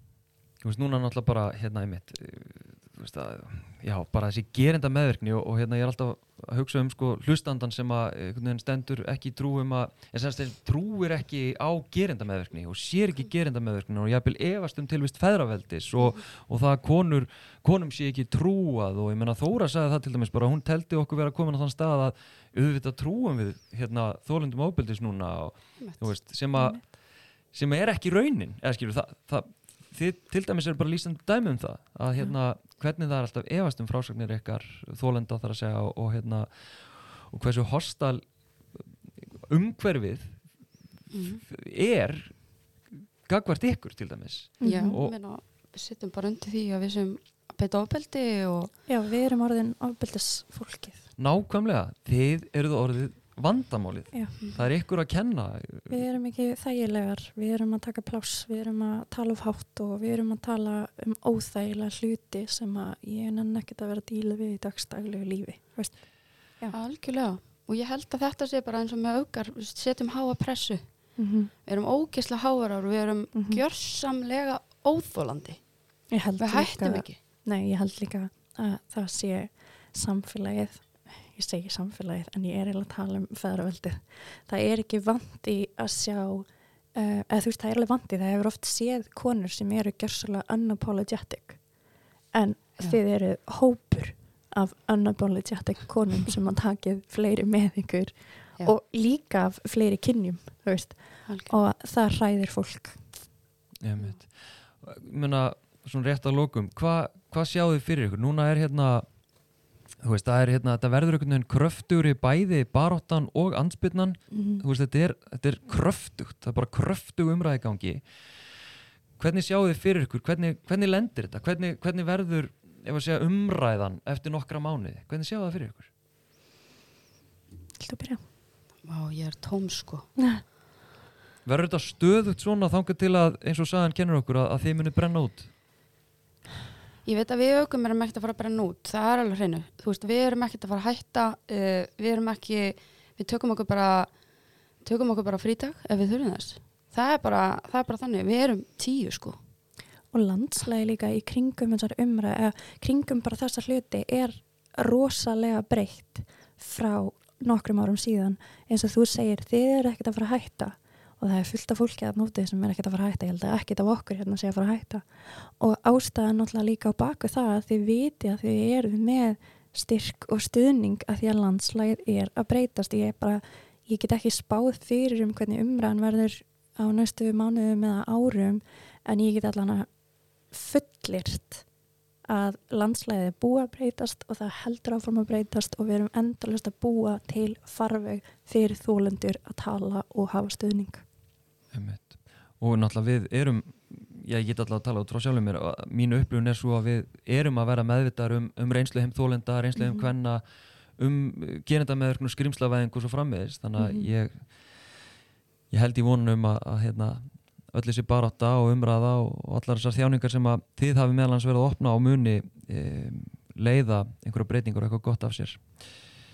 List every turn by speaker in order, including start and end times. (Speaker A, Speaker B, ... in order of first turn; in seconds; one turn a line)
Speaker A: 0.6-26.9
Speaker B: 25.8-26.1
Speaker C: 26.6-26.8
Speaker A: 27.5-36.5
Speaker A: 37.2-38.2
Speaker A: 39.4-40.4
Speaker B: 41.1-41.4
Speaker A: 41.4-42.4
Speaker A: 42.9-45.1
Speaker C: 44.6-45.0
Speaker B: 44.6-48.7
Speaker C: 48.9-51.0
Speaker A: 51.2-56.0
Speaker C: 55.9-65.9
Speaker B: 66.7-70.8
Speaker C: 71.2-71.5
Speaker B: 71.7-75.6
Speaker C: 73.3-73.6
Speaker C: 76.1-91.6
Speaker B: 76.4-77.2
Speaker C: 92.3-103.0
Speaker B: 101.2-101.5
Speaker A: 103.8-109.0
Speaker A: 110.0-118.0
Speaker C: 114.3-114.6
Speaker A: 119.2-125.9
Speaker C: 127.8-128.2
Speaker B: 128.8-130.1
Speaker C: 130.2-130.4
Speaker A: 131.4-135.5
Speaker B: 137.0-144.1
Speaker B: 144.8-149.4
Speaker C: 150.1-179.9
Speaker C: 180.5-181.6
Speaker C: 182.3-191.0
Speaker A: 191.7-200.4
Speaker C: 199.8-200.1
Speaker A: 201.0-204.5
Speaker C: 203.8-204.1
Speaker A: 205.7-215.6